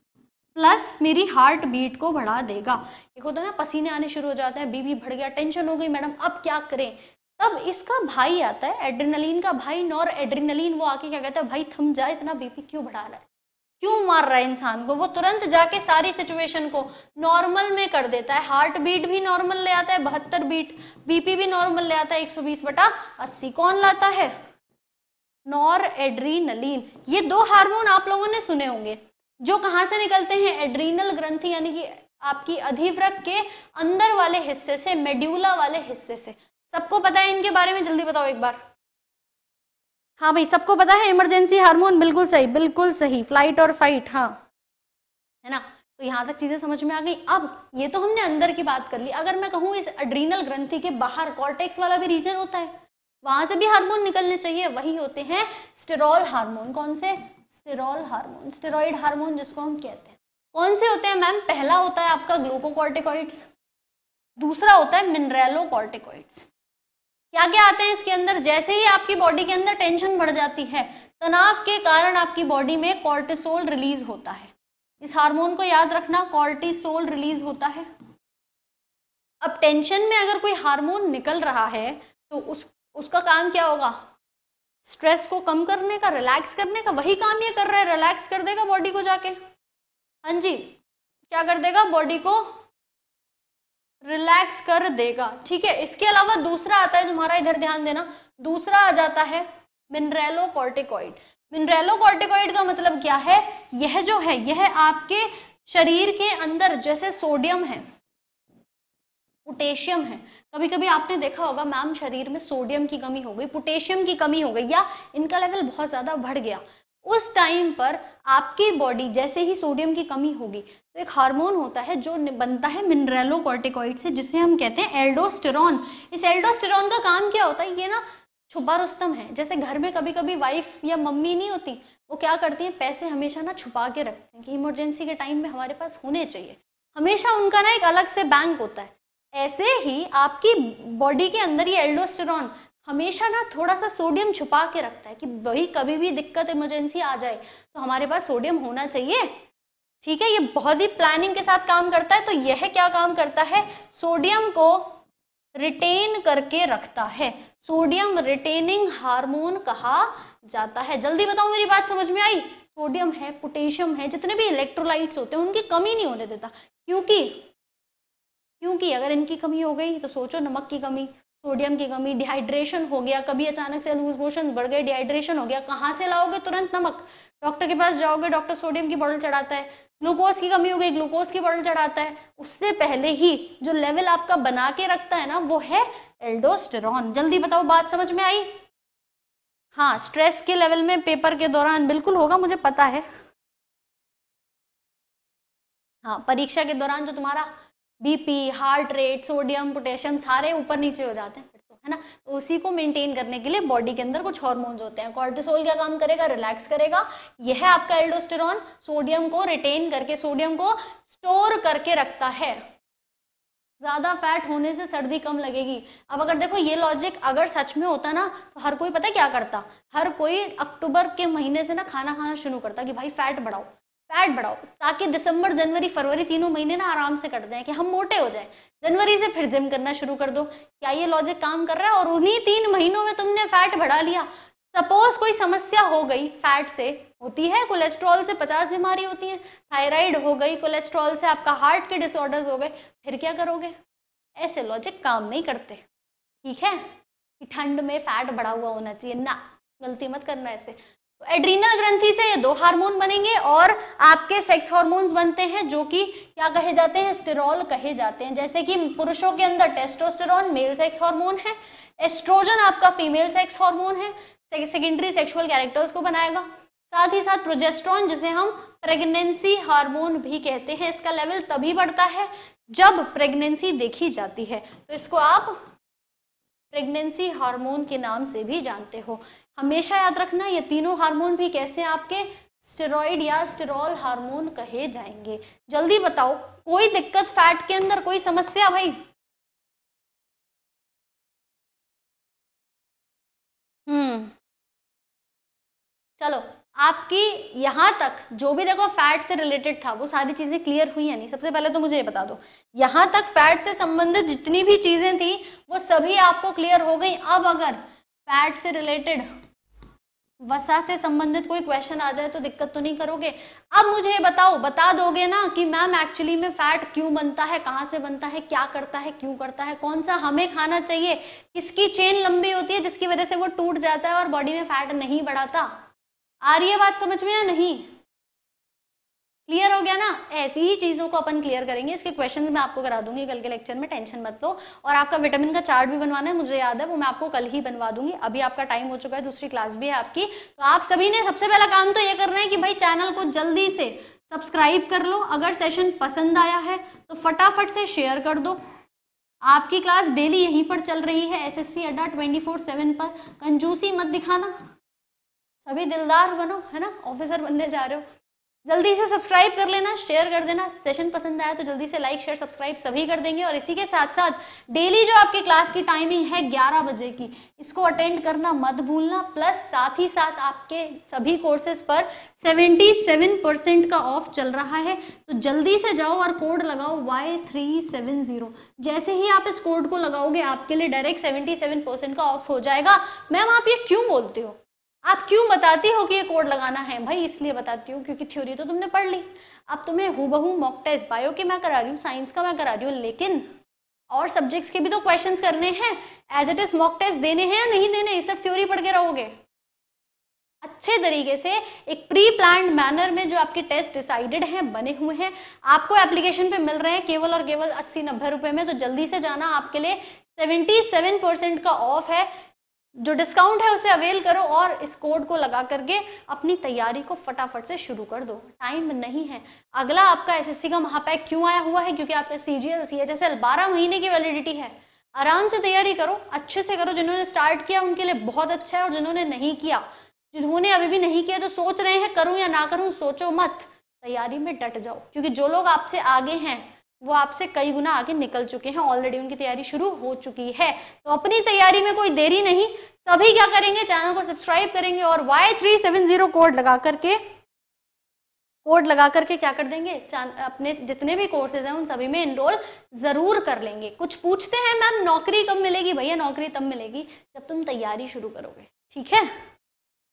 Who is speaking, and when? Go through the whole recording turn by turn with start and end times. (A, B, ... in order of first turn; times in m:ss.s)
0:00.6-0:13.3 A
0:13.8-0:24.4 A
0:25.5-0:38.6 A
0:40.2-0:44.4 A
0:45.4-1:03.5 A
1:04.4-1:06.5 A
1:07.3-1:17.9 A
1:19.4-1:24.0 A
1:24.8-1:29.4 A
1:30.2-1:30.8 A
1:31.3-1:32.6 A
1:34.0-1:47.8 A
1:49.5-2:29.4 A
2:30.0-2:35.0 A
2:35.6-2:47.5 A
2:48.6-3:08.6 A
3:09.8-3:13.1 A
3:16.0-3:32.7 A
3:33.8-4:03.8 A
4:04.4-4:05.8 A
4:06.4-4:35.6 A
4:36.7-4:49.0 A
4:53.9-4:54.4 A
4:56.2-5:09.2 A
5:10.4-5:25.8 A
5:26.4-5:28.0 A
5:29.5-5:48.6 A
5:49.5-5:54.5 A
5:55.6-5:58.0 A
5:58.7-6:33.5 A
6:34.1-6:39.4 A
6:40.6-6:52.3 A
6:53.0-7:27.2 A
7:28.6-7:39.4 A